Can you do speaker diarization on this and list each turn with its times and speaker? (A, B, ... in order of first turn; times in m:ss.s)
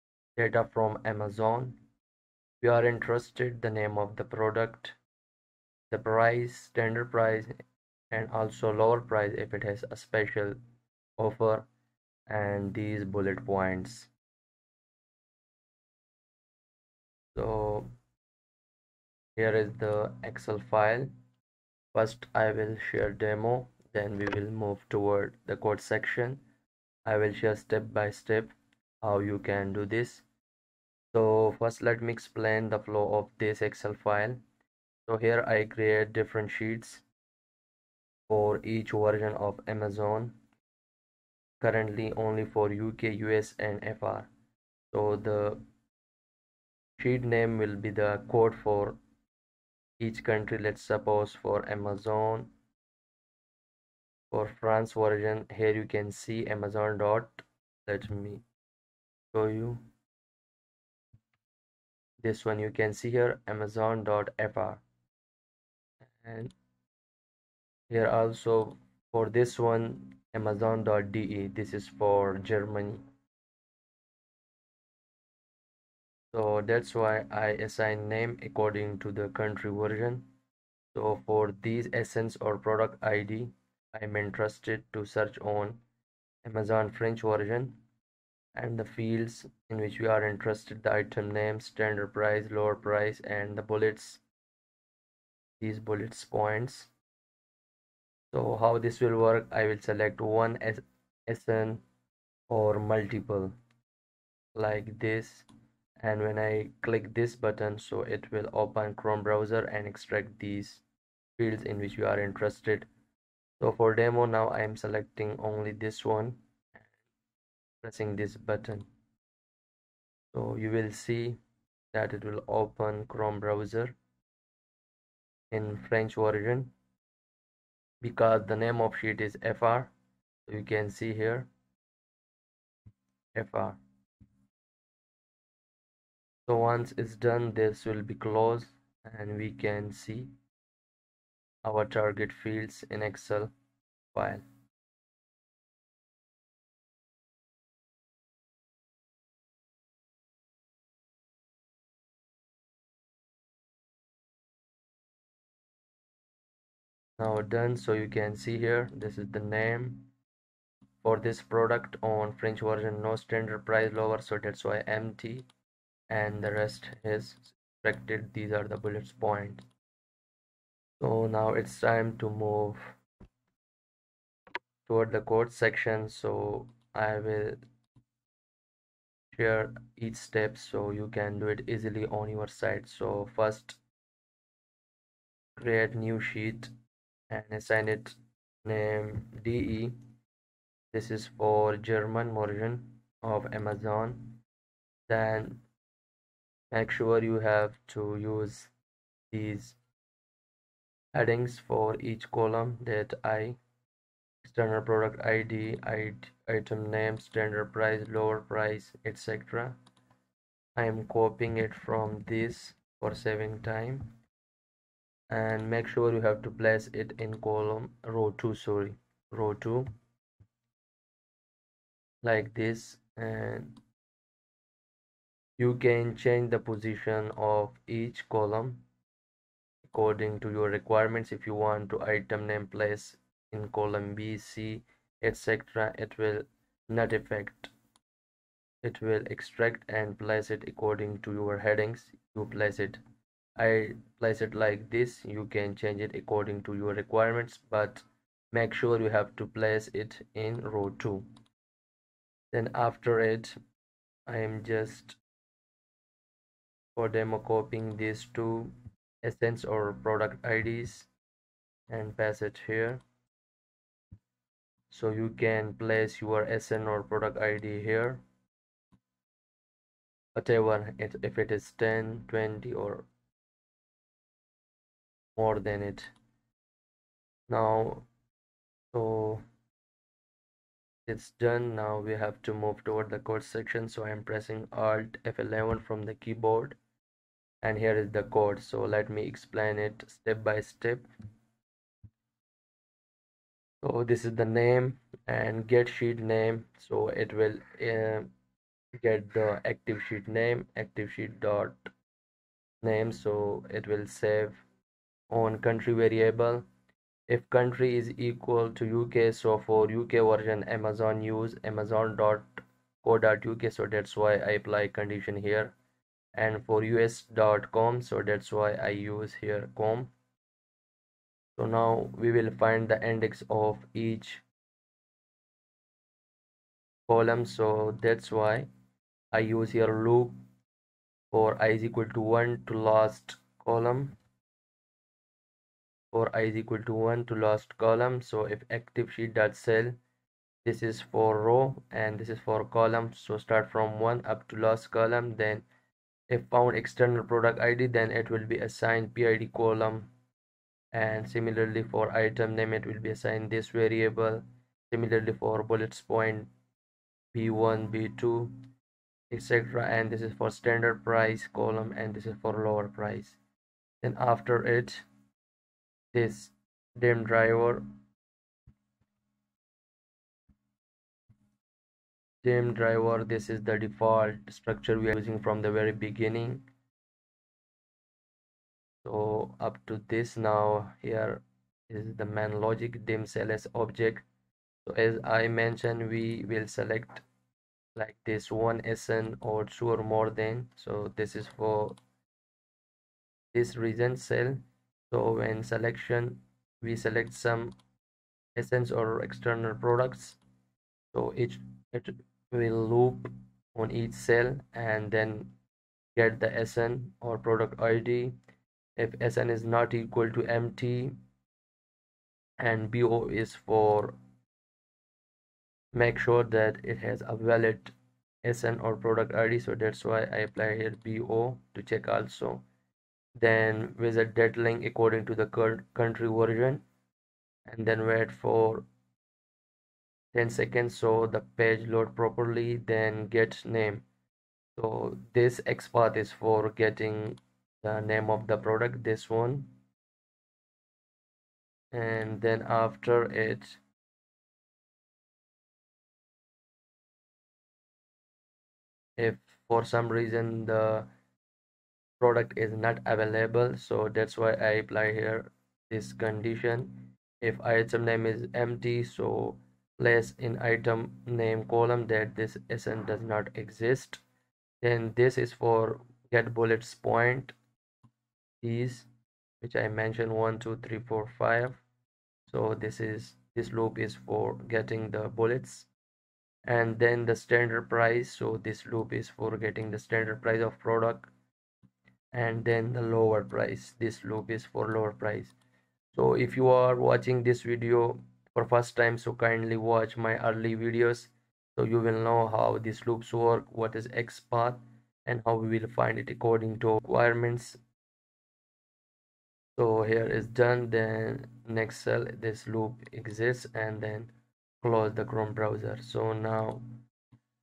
0:00.4-0:01.8 A
0:02.6-0:05.0 A
0:05.9-0:07.5 A
0:08.1-0:10.6 A
0:11.2-0:11.7 A
0:12.3-0:14.1 A
0:17.3-0:17.9 A
0:19.4-0:21.1 A
0:21.9-0:26.4 A
0:27.0-0:30.2 A
0:31.1-0:34.4 A
0:35.1-0:37.0 A
0:38.3-0:40.4 A
0:41.6-0:44.3 A
0:44.9-0:45.6 A
0:47.0-0:49.0 A
0:50.0-0:52.5 A
0:54.3-0:58.4 A
0:59.3-0:59.8 A
1:02.2-1:04.8 A
1:06.2-1:06.5 A
1:07.9-1:13.0 A
1:16.3-1:20.3 A
1:20.9-1:25.8 A
1:26.4-1:27.8 A
1:28.5-1:34.2 A
1:35.6-1:36.9 A
1:38.3-1:41.8 A
1:42.5-1:43.5 A
1:44.5-1:45.4 A
1:46.0-1:50.8 A
1:51.4-1:52.9 A
1:53.6-1:56.9 A
1:57.8-1:58.9 A
2:00.3-2:01.4 A
2:01.9-2:04.0 A
2:05.5-2:06.7 A
2:08.0-2:09.9 A
2:10.5-2:11.5 A
2:13.3-2:13.8 A
2:16.5-2:20.3 A
2:21.6-2:23.5 A
2:24.1-2:24.4 A
2:37.2-2:40.1 A
2:41.0-2:45.5 A
2:46.1-2:49.6 A
2:51.0-2:52.9 A
2:54.8-2:57.6 A
2:59.3-3:03.8 A
3:05.6-3:06.7 A
3:07.3-3:10.0 A
3:10.9-3:14.4 A
3:15.1-3:15.6 A
3:16.7-3:18.7 A
3:19.3-3:19.8 A
3:21.1-3:23.6 A
3:24.4-3:29.8 A
3:30.8-3:34.1 A
3:35.3-3:39.9 A
3:42.2-3:43.8 A
3:45.6-3:48.8 A
3:49.8-3:57.7 A
3:58.8-4:03.0 A
4:03.6-4:11.3 A
4:12.5-4:13.6 A
4:14.3-4:15.2 A
4:16.9-4:21.1 A
4:21.9-4:23.0 A
4:24.9-4:28.2 A
4:30.3-4:33.1 A
4:35.4-4:36.1 A
4:37.5-4:38.1 A
4:38.9-4:39.4 A
4:41.1-4:46.8 A
4:47.6-4:51.1 A
4:53.8-4:58.3 A
4:59.0-5:01.9 A
5:02.8-5:04.6 A
5:05.3-5:06.6 A
5:07.3-5:15.7 A
5:16.3-5:20.1 A
5:21.6-5:24.4 A
5:27.1-5:28.7 A
5:29.3-5:30.4 A
5:31.3-5:34.2 A
5:36.1-5:40.0 A
5:40.6-5:45.6 A
5:46.3-5:50.1 A
5:50.9-5:56.5 A
5:57.3-5:58.6 A
5:59.3-6:03.4 A
6:04.0-6:05.0 A
6:06.1-6:07.8 A
6:12.4-6:16.6 A
6:19.0-6:24.2 A
6:24.8-6:27.2 A
6:28.0-6:32.0 A
6:33.5-6:37.7 A
6:38.6-6:40.4 A
6:41.1-6:45.5 A
6:46.1-6:48.4 A
6:49.0-6:51.2 A
6:52.6-6:54.2 A
6:55.9-7:02.6 A
7:03.4-7:06.8 A
7:07.6-7:08.8 A
7:10.3-7:14.0 A
7:14.8-7:19.7 A
7:21.9-7:23.8 A
7:29.2-7:31.1 A
7:32.2-7:44.2 A
7:44.8-7:47.6 A
7:48.6-7:49.1 A
7:49.6-7:51.8 A
7:52.5-7:55.9 A
7:56.6-8:01.3 A
8:02.3-8:05.5 A
8:06.1-8:17.8 A
8:19.8-8:27.0 A